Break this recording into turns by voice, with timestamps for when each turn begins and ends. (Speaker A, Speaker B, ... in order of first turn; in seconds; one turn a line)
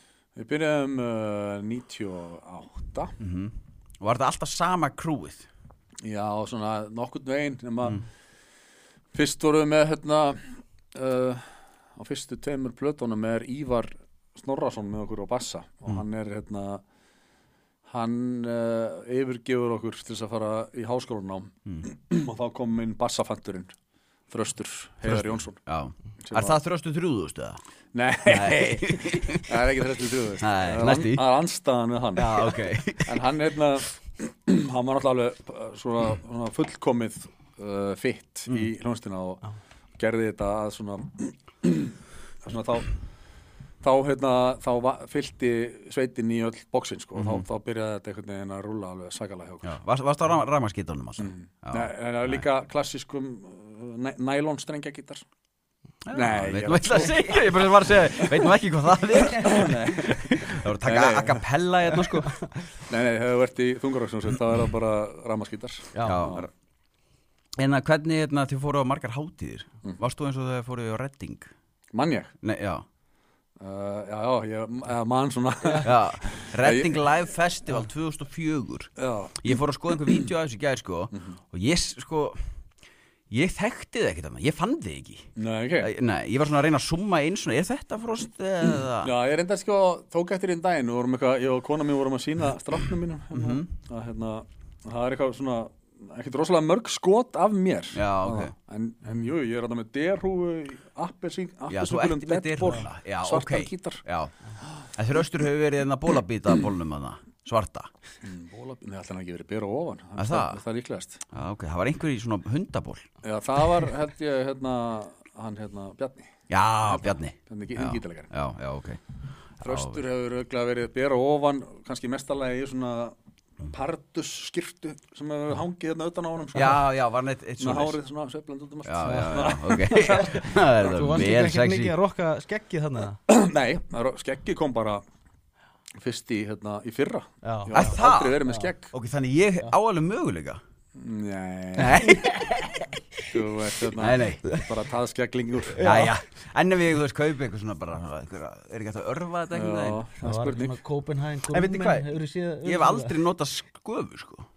Speaker A: 0.4-3.1
Speaker B: 3.2-5.5
Speaker A: 6.0-8.1
Speaker A: 9.1-16.8
Speaker A: 17.9-23.7
Speaker A: 24.3-25.6
Speaker B: 25.1-27.6
Speaker A: 26.2-26.6
Speaker A: 27.9-39.5
Speaker B: 28.3-29.6
Speaker B: 30.4-31.3
Speaker B: 32.1-33.2
Speaker A: 40.0-42.9
Speaker A: 43.8-49.8
Speaker B: 47.2-47.5
Speaker B: 49.6-52.4
Speaker A: 51.2-55.2
Speaker B: 56.0-62.4
Speaker A: 56.1-57.4
Speaker A: 59.3-61.5
Speaker C: 62.0-62.6
Speaker A: 62.9-66.5
Speaker C: 65.9-66.2
Speaker B: 66.0-66.4
Speaker B: 67.6-71.5
Speaker A: 71.9-72.3
Speaker B: 72.4-72.8
Speaker A: 73.6-77.1
Speaker B: 75.8-82.4
Speaker A: 79.0-79.4
Speaker B: 83.3-85.3
Speaker A: 85.4-85.9
Speaker B: 85.8-89.1
Speaker A: 89.0-104.0
Speaker B: 93.3-93.7
Speaker B: 97.9-98.5
Speaker B: 101.7-104.3
Speaker B: 104.9-107.9
Speaker A: 108.2-111.2
Speaker B: 110.2-110.6
Speaker B: 111.3-113.1
Speaker A: 113.2-116.3
Speaker B: 116.5-119.0
Speaker A: 116.8-118.3
Speaker B: 119.6-120.0
Speaker A: 119.6-126.9
Speaker B: 126.5-128.0
Speaker A: 127.6-130.4
Speaker B: 128.8-132.0
Speaker C: 129.0-133.2
Speaker A: 133.3-135.0
Speaker A: 136.0-138.9
Speaker C: 137.4-138.7
Speaker B: 137.7-140.6
Speaker A: 141.0-142.1
Speaker B: 141.8-143.0
Speaker A: 143.3-145.9
Speaker B: 144.0-144.5
Speaker C: 145.8-146.1
Speaker B: 145.8-150.1
Speaker A: 149.5-150.8
Speaker C: 150.2-153.2
Speaker B: 151.5-152.1
Speaker B: 152.6-154.5